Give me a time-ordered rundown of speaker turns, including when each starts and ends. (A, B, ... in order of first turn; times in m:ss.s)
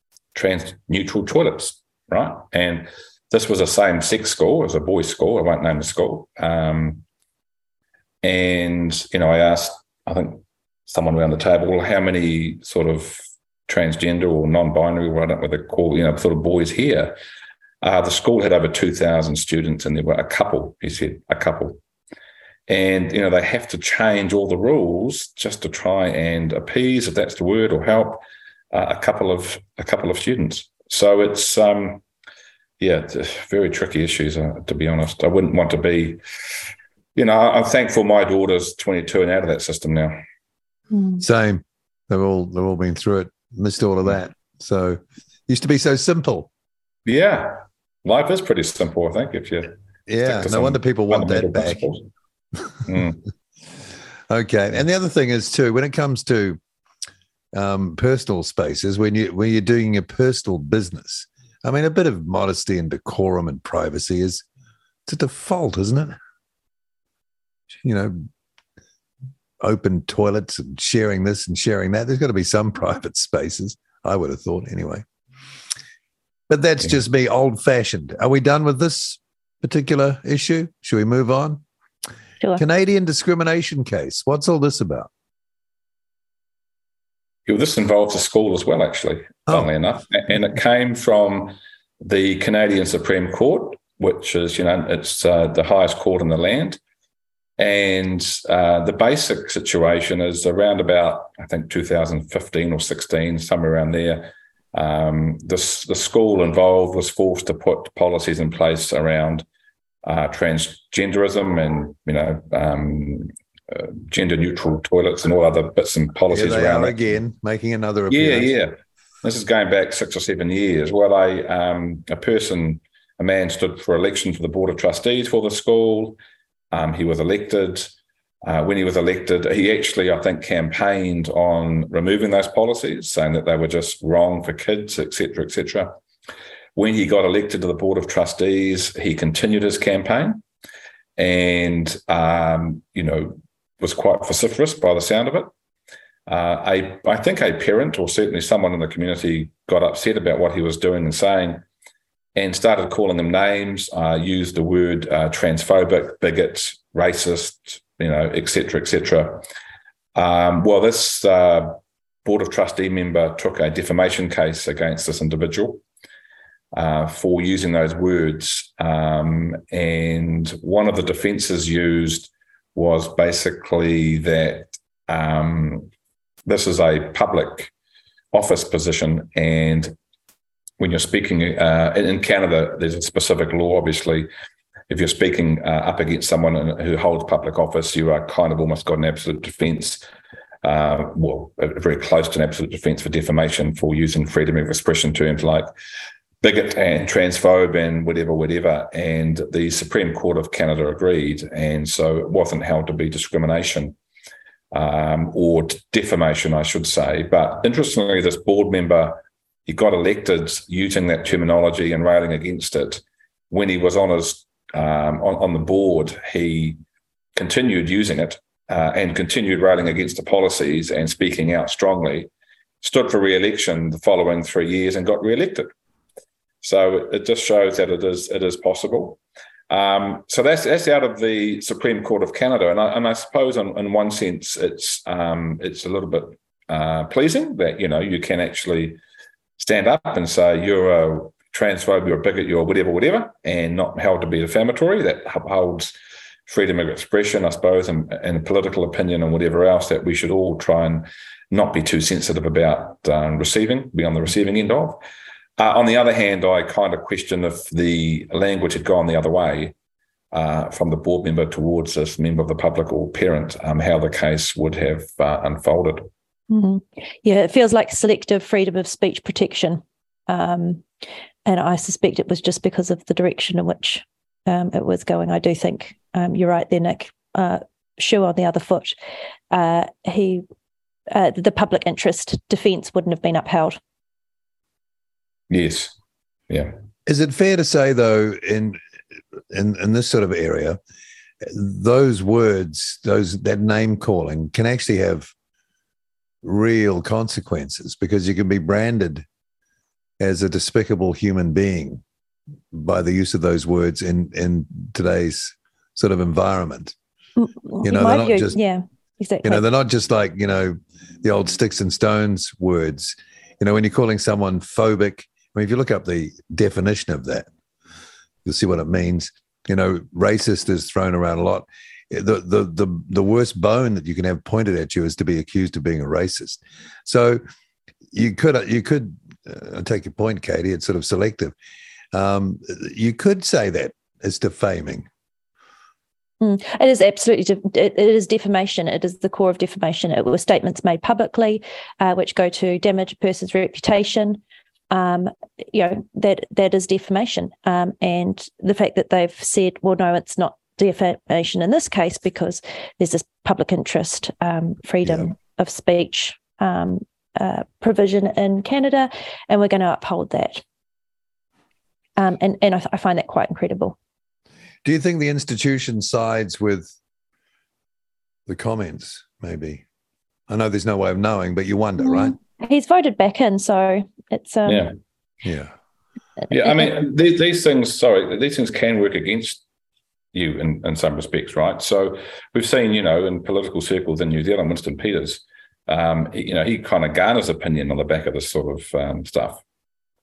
0:00.3-0:07.0 A
0:08.2-0:17.1 A
0:17.8-0:21.8 A
0:22.7-0:32.0 A
0:32.8-0:36.2 A
0:37.2-0:40.2 A
0:40.9-0:41.2 B
0:41.2-0:46.5 C
0:47.0-0:49.7 A
0:50.1-0:51.9 C
0:50.2-0:52.0 A
0:52.8-0:53.2 A
0:54.3-0:56.6 C
0:57.5-1:04.4 C
1:05.1-1:06.2 C
1:07.7-1:08.2 C
1:09.6-1:15.0 C
1:16.5-1:21.6 C
1:22.6-1:25.1 C
1:27.5-1:36.8 A
1:37.6-1:49.4 A
1:50.0-1:57.2 A
1:56.3-1:58.5 C
1:58.1-2:06.2 A
2:06.7-2:07.9 A
2:08.4-2:15.9 A
2:16.8-2:20.4 A
2:21.2-2:25.5 A
2:26.3-2:31.6 A
2:32.3-2:39.4 A
2:40.1-2:45.8 A
2:46.7-2:55.9 A
2:56.4-2:57.7 A
2:58.3-2:59.9 A
3:00.8-3:04.3 A
3:04.9-3:10.0 A
3:10.6-3:15.7 A
3:16.4-3:24.0 A
3:24.7-3:36.8 A
3:37.4-3:42.3 A
3:42.8-3:45.7 A
3:46.6-3:59.0 A
3:59.6-4:05.9 A
4:06.5-4:15.0 A
4:15.6-4:19.7 A
4:20.3-4:26.1 A
4:26.5-4:30.8 B
4:31.4-4:38.9 B
4:39.5-4:40.4 B
4:41.1-4:43.8 B
4:45.5-4:45.9 A
4:46.5-4:46.7 A
4:47.0-4:48.8 C
4:49.5-4:50.8 C
4:51.4-4:55.3 C
4:56.4-4:59.2 C
5:00.2-5:02.0 C
5:02.7-5:06.9 C
5:07.4-5:09.6 B
5:07.8-5:08.6 C
5:09.4-5:17.5 C
5:18.4-5:27.4 C
5:28.1-5:31.5 C
5:32.1-5:35.1 C
5:36.4-5:44.4 B
5:44.9-6:00.6 B
6:02.2-6:04.0 B
6:04.8-6:06.9 C
6:08.5-6:09.8 C
6:10.5-6:12.4 C
6:12.0-6:14.9 B
6:15.4-6:15.7 C
6:16.5-6:19.6 A
6:20.3-6:29.6 A